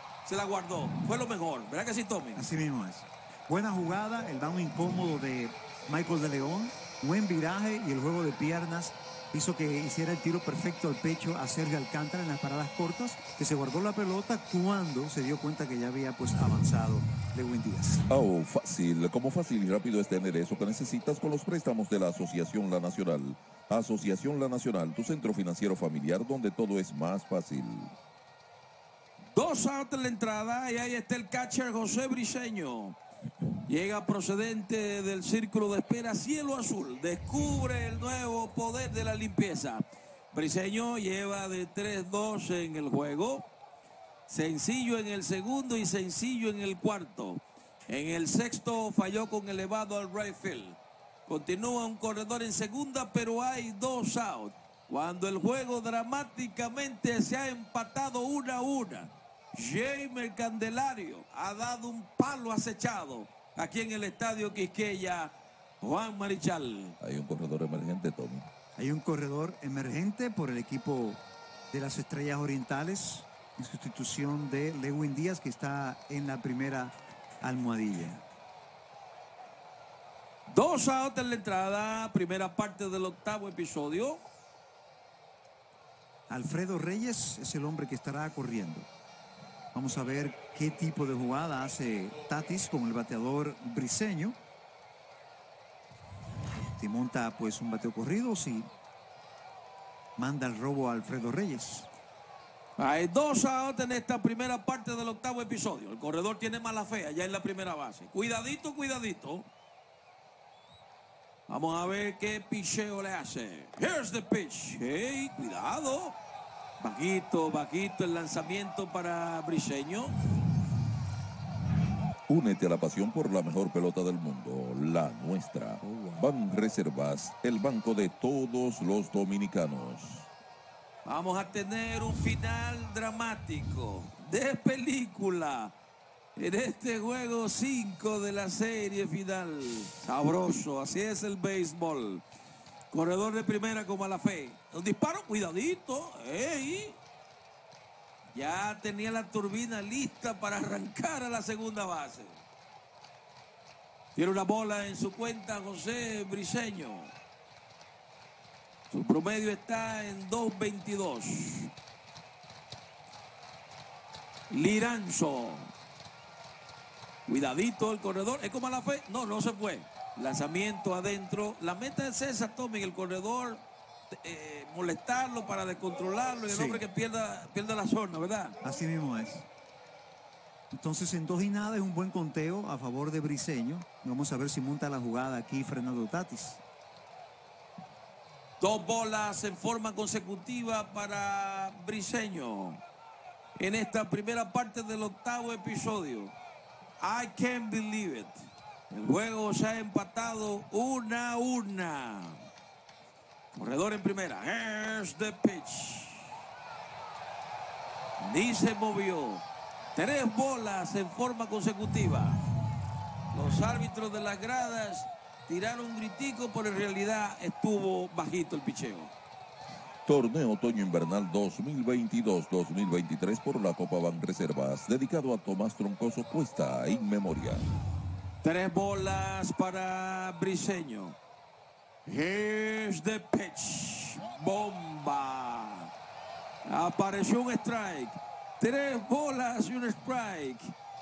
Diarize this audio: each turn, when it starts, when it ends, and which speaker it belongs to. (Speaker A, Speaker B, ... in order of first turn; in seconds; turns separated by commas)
Speaker A: 0.2-2.4, Speaker B: 2.3-18.0, Speaker C: 18.1-27.9, Speaker A: 29.3-33.0, Speaker A: 33.7-43.5, Speaker A: 44.3-67.0, Speaker C: 67.0-68.5, Speaker B: 68.8-78.2, Speaker A: 80.5-84.2, Speaker B: 86.3-88.9, Speaker B: 89.7-94.3, Speaker B: 96.8-98.7, Speaker B: 100.2-101.9, Speaker A: 102.8-109.5, Speaker A: 111.5-116.2, Speaker A: 116.8-120.1, Speaker C: 122.3-130.3, Speaker B: 125.8-126.2, Speaker A: 131.0-135.7, Speaker A: 136.3-142.2, Speaker A: 142.9-147.0, Speaker A: 148.3-152.4, Speaker A: 154.2-157.1, Speaker A: 158.9-161.7, Speaker A: 164.5-165.7, Speaker A: 167.3-178.6, Speaker B: 176.5-176.8, Speaker B: 178.6-179.4, Speaker B: 180.7-186.6, Speaker A: 188.6-192.8, Speaker A: 193.6-196.3, Speaker A: 197.0-202.4, Speaker A: 203.5-206.3, Speaker A: 208.2-209.4, Speaker A: 209.9-212.4, Speaker A: 213.3-219.1, Speaker C: 220.1-227.6, Speaker A: 228.4-231.2, Speaker A: 232.1-235.9, Speaker A: 236.6-240.7